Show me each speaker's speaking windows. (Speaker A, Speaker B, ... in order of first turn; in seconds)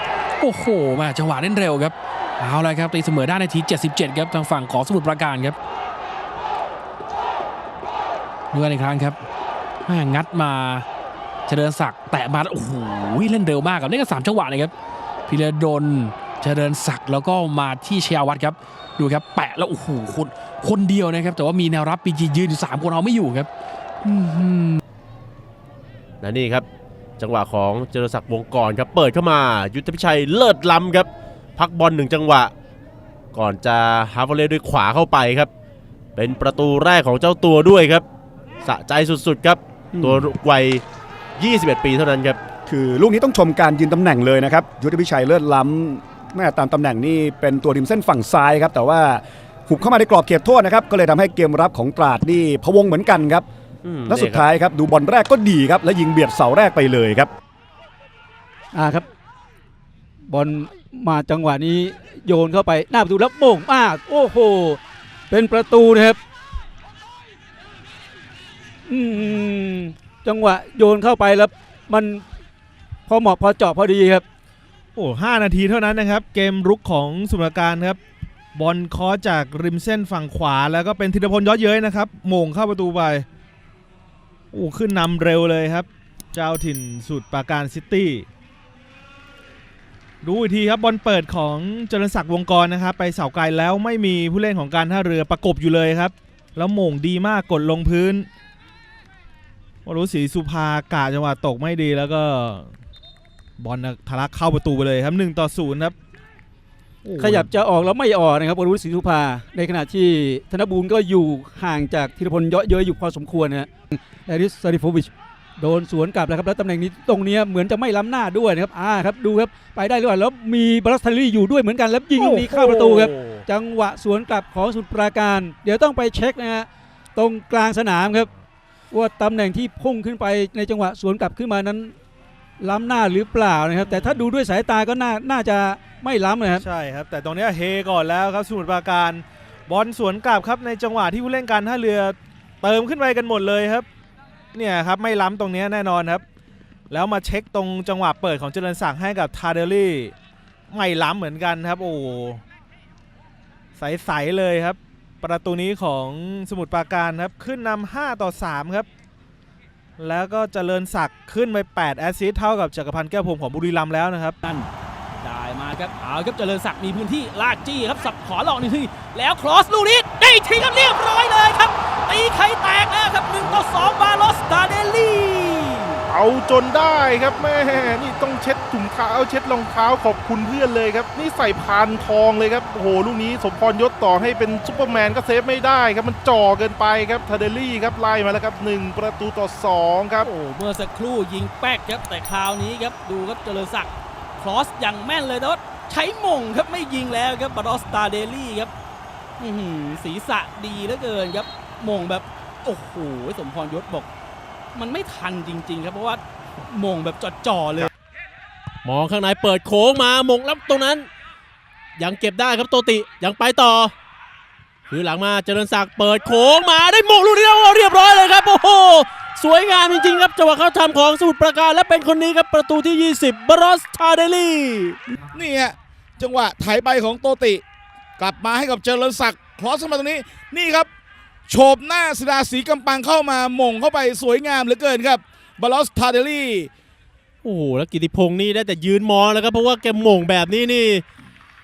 Speaker A: 0.4-5.5, 8.5-9.1, 9.8-10.8, 11.5-14.7, 15.3-23.5, 24.0-24.8
Speaker B: 26.2-26.6, 27.2-32.5, 33.3-35.5, 36.1-38.0, 38.6-40.8, 41.4-42.4, 53.8-54.4, 122.3-123.3, 208.8-211.1, 212.0-213.9, 214.9-225.0, 237.4-241.0
Speaker C: 42.7-53.5, 54.0-57.3
Speaker D: 58.7-59.0, 60.3-66.2, 68.9-72.2, 73.1-74.2, 107.2-128.3, 128.9-131.9, 132.6-136.7
Speaker E: 75.0-78.0, 78.5-83.2, 84.5-88.3, 90.2-98.3, 99.8-102.7, 103.6-105.9, 107.0-107.5, 136.5-143.9, 144.5-146.2, 146.9-150.1, 150.7-152.4, 153.8-158.9, 160.0-164.3
Speaker F: 164.4-164.7, 165.2-176.0, 190.2-198.7, 199.4-204.1, 204.7-207.9
Speaker G: 176.1-190.2
Speaker H: 225.3-227.6, 228.2-230.9, 231.5-236.7